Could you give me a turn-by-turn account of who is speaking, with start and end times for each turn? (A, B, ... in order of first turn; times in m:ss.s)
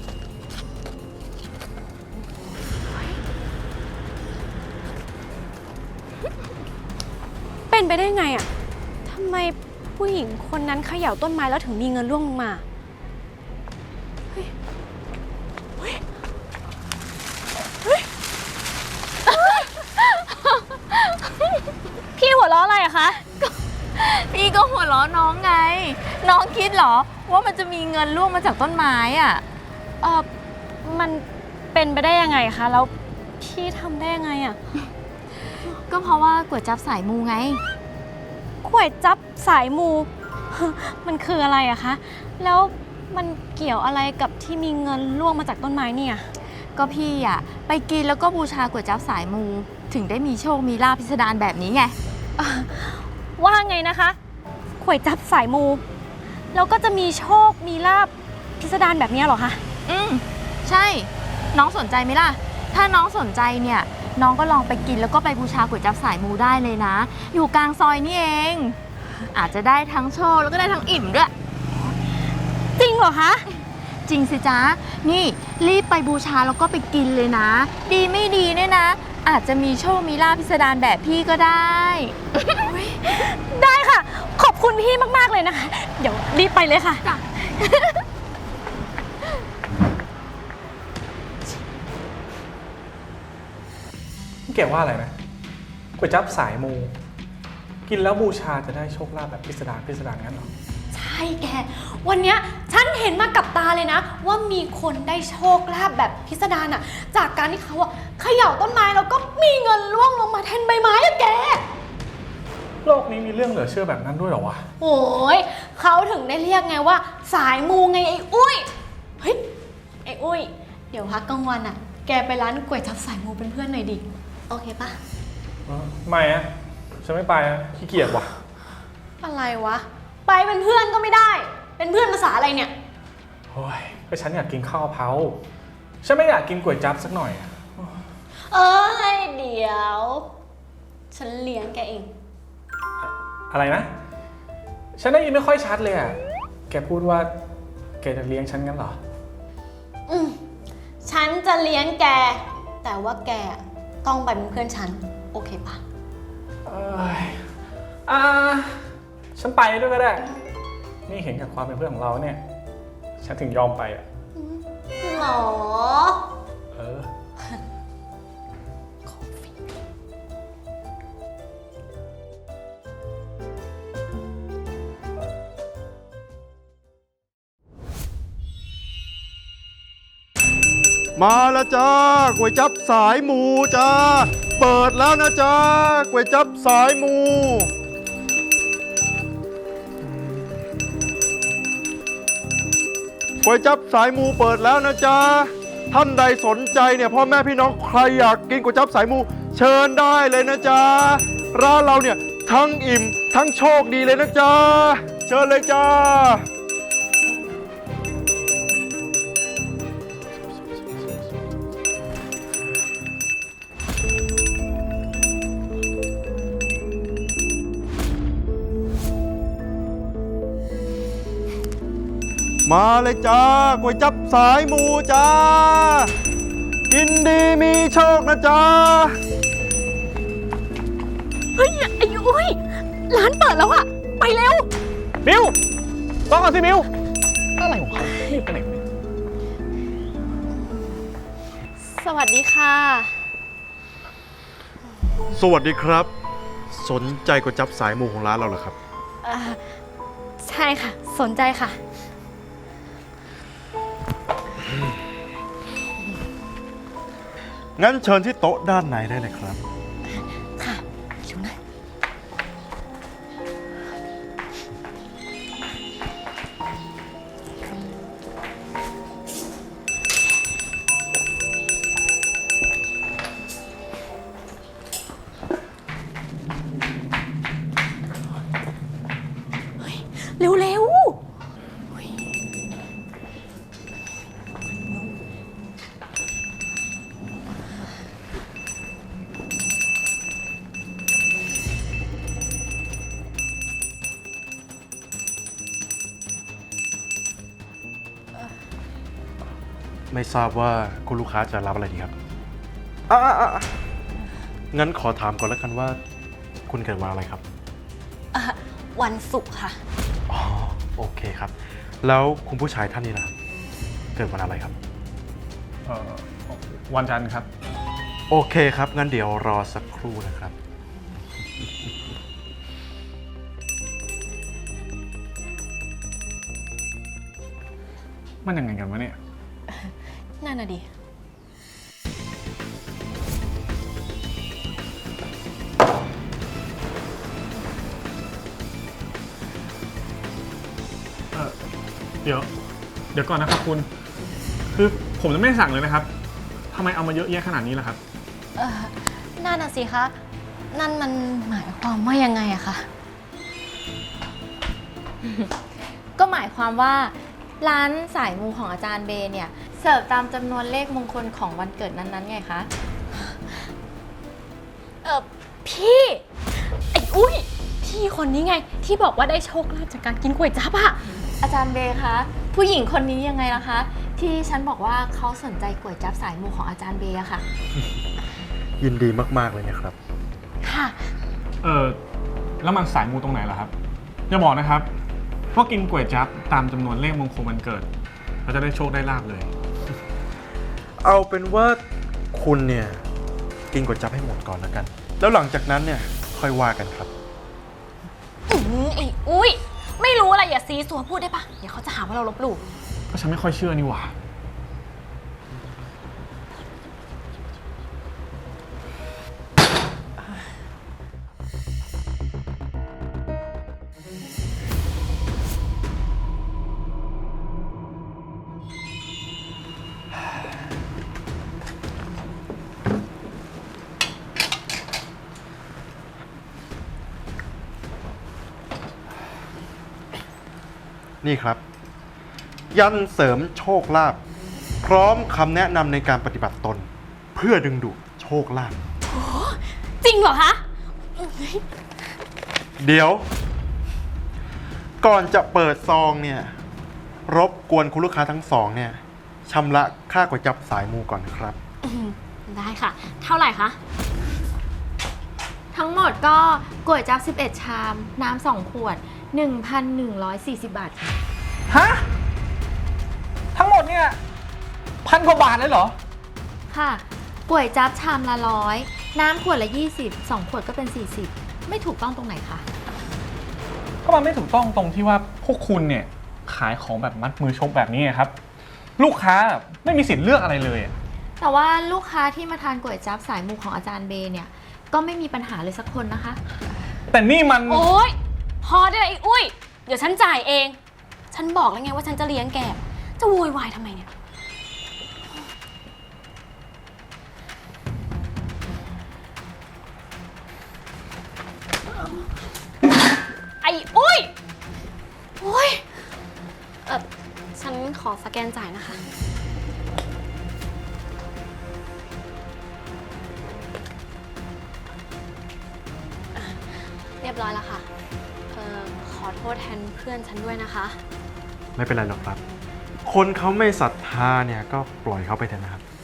0:07.7-0:08.5 A
0:09.0-0:12.6 A
0:19.3-0:20.0 A
0:22.1-0:23.2 A
0:23.4-0:29.4 B
0:30.0-0:30.3 A
0:30.8-0:34.6 A
0:35.9-0:37.6 B
0:38.6-0:46.2 A
0:46.7-0:52.0 B
0:52.4-0:54.2 A
0:54.8-0:55.8 A
0:56.5-0:59.6 A
0:59.9-1:08.8 B
1:09.3-1:11.3 B
1:12.8-1:13.4 A
1:14.0-1:22.1 B
1:22.4-1:27.0 A
1:27.0-1:27.4 B
1:27.7-1:28.0 A
1:34.5-1:35.1 C
1:36.0-1:36.9 C
1:37.8-1:40.5 C
1:40.9-1:51.6 A
1:52.8-1:54.6 C
1:54.8-1:59.4 A
2:00.0-2:05.0 A
2:05.7-2:08.3 C
2:09.2-2:12.7 A
2:13.5-2:15.4 C
2:16.0-2:18.0 C
2:18.4-2:20.3 A
2:21.1-2:22.1 A
2:23.0-2:23.9 C
2:25.0-2:26.2 C
2:26.7-2:27.3 C
2:28.0-2:29.0 C
2:30.1-2:30.4 A
2:31.0-2:35.8 A
2:36.6-2:37.4 C
2:38.0-2:40.3 C
2:41.1-2:42.4 C
2:43.2-2:44.0 C
2:44.3-2:46.2 A
2:46.7-2:47.1 C
2:49.1-2:49.4 A
3:01.2-3:07.7 D
3:13.4-3:26.4 D
3:42.6-3:46.1 D
3:46.9-3:49.1 D
3:51.5-3:54.7 A
3:55.2-3:55.6 C
3:56.3-3:56.9 C
3:57.6-3:58.8 C
4:00.5-4:00.9 A
4:01.8-4:03.2 A
4:05.3-4:06.1 D
4:06.7-4:08.7 D
4:09.2-4:09.8 A
4:10.4-4:11.8 A
4:17.8-4:19.6 D
4:20.6-4:21.6 A
4:39.8-4:41.2 A
5:00.1-5:02.1 D
5:03.1-5:03.7 D
5:04.7-5:06.0 D
5:06.7-5:07.4 D
5:08.3-5:09.8 A
5:10.3-5:13.3 D
5:14.1-5:14.7 D
5:15.8-5:17.5 C
5:18.3-5:20.5 D
5:28.4-5:29.2 C
5:29.7-5:30.9 A
5:42.2-5:42.5 C
5:43.1-5:43.9 C
5:44.7-5:46.1 C
5:46.7-5:48.0 C
5:48.6-5:50.1 A
5:50.7-5:52.9 A
5:55.2-5:55.5 B
5:56.2-6:02.7 B
6:05.0-6:06.2 A
6:06.8-6:11.0 A
6:11.4-6:17.4 B
6:18.8-6:20.0 D
6:20.6-6:21.1 A
6:21.6-6:22.0 C
6:22.6-6:23.7 C
6:24.3-6:24.9 C
6:25.5-6:27.9 C
6:28.4-6:29.5 C
6:31.0-6:31.8 D
6:32.3-6:33.0 D
6:33.7-6:37.1 D
6:38.5-6:42.6 A
6:43.1-6:44.1 C
7:11.2-7:11.6 D
7:12.7-7:14.2 D
7:14.8-7:18.8 D
7:19.1-7:20.6 A
7:21.2-7:21.6 A
7:22.8-7:23.3 D
7:25.0-7:26.5 D
7:27.3-7:31.6 D
7:31.8-7:33.8 A
7:35.7-7:41.2 B
7:41.7-7:42.0 C
7:43.5-7:44.2 C
7:45.0-7:46.0 C
7:46.7-7:52.6 B
7:54.0-7:58.3 C
7:59.0-8:01.0 C
8:01.4-8:06.4 B
8:07.1-8:07.8 C
8:07.7-8:10.8 A
8:11.3-8:14.1 A
8:23.6-8:24.3 A
8:25.4-8:25.8 A
8:26.8-8:29.0 A
8:36.3-8:37.9 A
8:38.5-8:41.0 A
8:41.8-8:42.4 D
8:43.0-8:45.8 D